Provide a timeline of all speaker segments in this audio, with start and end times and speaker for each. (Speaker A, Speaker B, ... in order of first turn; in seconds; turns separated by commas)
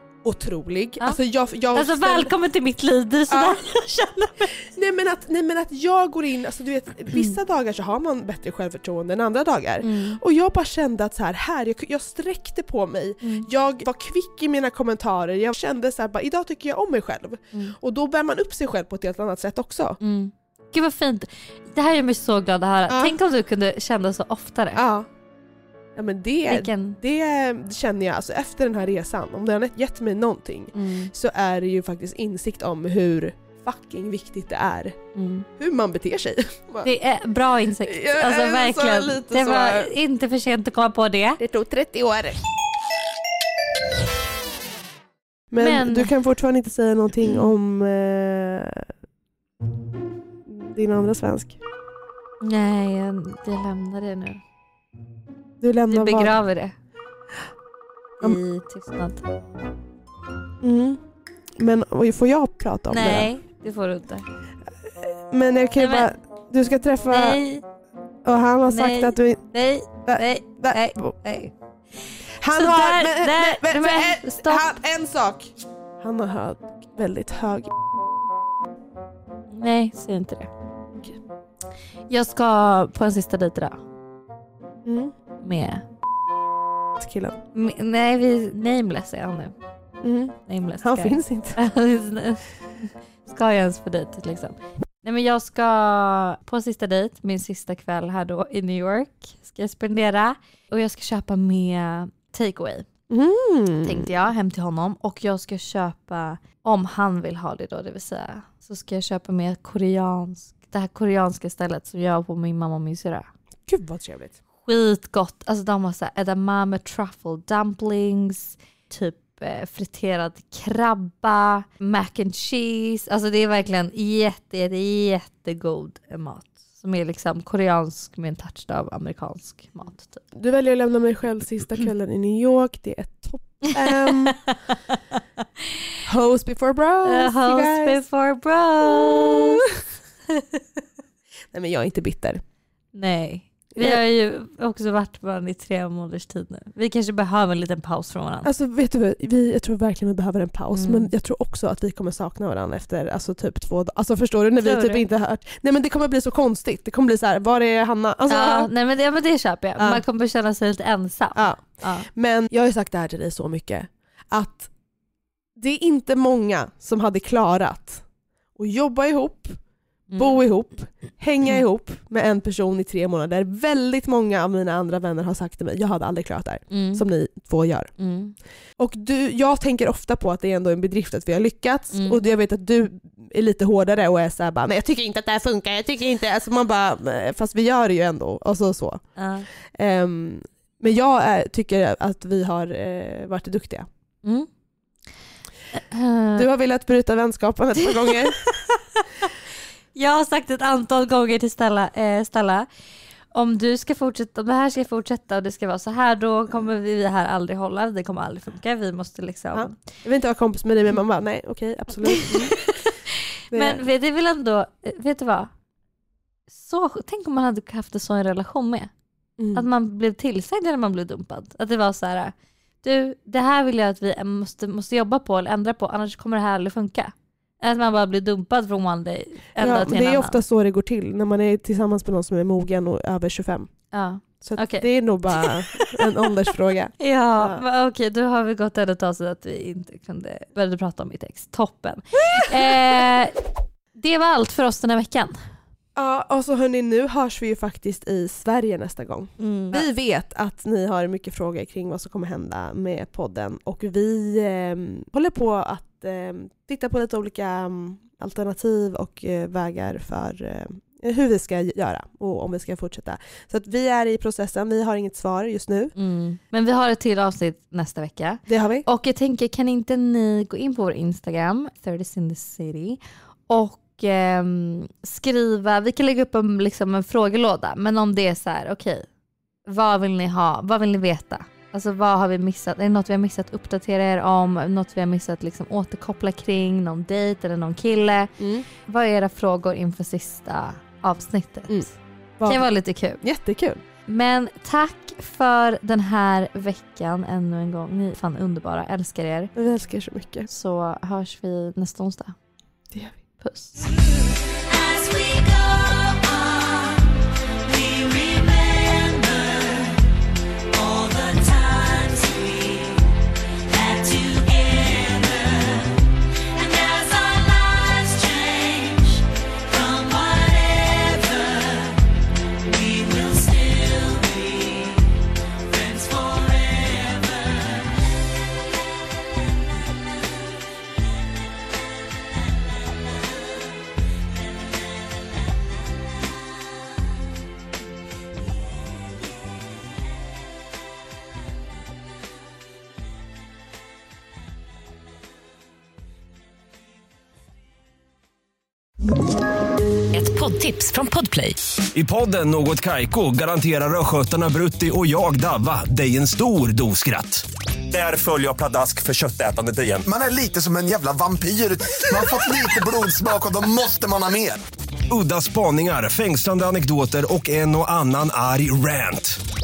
Speaker A: 0.2-2.3, Speaker B: 1.7-4.5, Speaker A: 3.3-3.6, Speaker A: 4.6-20.0, Speaker B: 9.8-10.2, Speaker B: 13.2-13.5, Speaker B: 20.0-24.8, Speaker A: 22.9-23.1, Speaker A: 24.8-25.1, Speaker A: 25.9-35.0, Speaker B: 26.5-27.0, Speaker B: 30.7-31.1, Speaker B: 35.1-35.5, Speaker A: 35.6-36.9, Speaker B: 36.8-41.4, Speaker A: 37.8-39.9, Speaker A: 41.4-42.4, Speaker A: 45.5-48.9, Speaker B: 45.6-46.1, Speaker A: 50.5-51.6, Speaker B: 52.4-54.4, Speaker A: 55.6-56.4, Speaker B: 55.9-56.7, Speaker B: 58.2-59.2, Speaker A: 60.6-61.0, Speaker A: 61.5-63.3, Speaker B: 62.9-64.2, Speaker A: 65.0-67.4, Speaker B: 65.8-66.1, Speaker B: 67.1-67.6, Speaker A: 68.2-69.4, Speaker B: 68.7-71.5, Speaker A: 70.0-71.1, Speaker A: 72.4-77.7, Speaker B: 72.5-74.8, Speaker B: 79.5-80.5, Speaker B: 82.1-83.8, Speaker A: 84.8-85.1, Speaker B: 85.4-85.8, Speaker A: 87.0-87.4, Speaker B: 87.5-89.5, Speaker A: 90.0-91.6, Speaker B: 90.5-102.9, Speaker A: 103.1-104.1, Speaker B: 103.8-113.3, Speaker A: 113.7-114.3, Speaker B: 114.6-130.2, Speaker A: 130.3-134.4, Speaker B: 133.8-134.3, Speaker A: 136.1-138.0, Speaker B: 137.0-139.6, Speaker A: 138.9-139.6, Speaker A: 141.5-142.4, Speaker B: 142.9-148.5, Speaker A: 148.4-158.7, Speaker B: 150.7-151.1, Speaker B: 154.6-155.0, Speaker B: 158.3-162.1, Speaker A: 159.8-160.0, Speaker A: 161.3-164.7, Speaker A: 165.6-168.0, Speaker A: 168.6-169.6, Speaker B: 170.1-170.4, Speaker A: 170.2-177.9, Speaker B: 176.7-177.0, Speaker B: 178.0-178.3, Speaker A: 178.8-189.0, Speaker B: 181.9-182.2, Speaker B: 189.2-189.4, Speaker A: 189.7-193.9, Speaker B: 195.7-196.5, Speaker A: 196.3-198.4, Speaker B: 199.9-202.7, Speaker B: 203.3-209.8, Speaker A: 209.5-212.6, Speaker B: 212.1-212.5, Speaker A: 213.5-213.8, Speaker B: 213.5-215.5, Speaker B: 216.5-218.9, Speaker A: 219.4-219.7, Speaker B: 219.5-230.4, Speaker A: 229.6-233.7, Speaker B: 233.9-236.1, Speaker A: 234.4-237.6, Speaker B: 237.0-243.3, Speaker B: 243.9-245.3, Speaker A: 245.9-265.9, Speaker B: 249.4-249.8, Speaker B: 265.9-279.1, Speaker A: 268.5-268.9, Speaker B: 279.6-291.9, Speaker A: 288.4-288.6, Speaker A: 291.7-292.7, Speaker B: 292.4-293.2, Speaker A: 293.2-293.8, Speaker B: 294.1-299.5, Speaker A: 299.5-300.5, Speaker B: 300.5-302.3, Speaker A: 302.9-303.2, Speaker B: 303.4-303.8, Speaker C: 304.7-307.0, Speaker C: 307.6-310.0, Speaker C: 310.7-313.0, Speaker C: 313.7-316.0, Speaker C: 316.5-321.9, Speaker C: 322.6-325.0, Speaker C: 325.7-327.6, Speaker C: 350.1-351.6, Speaker D: 351.9-360.1, Speaker E: 360.1-364.6, Speaker D: 365.1-369.4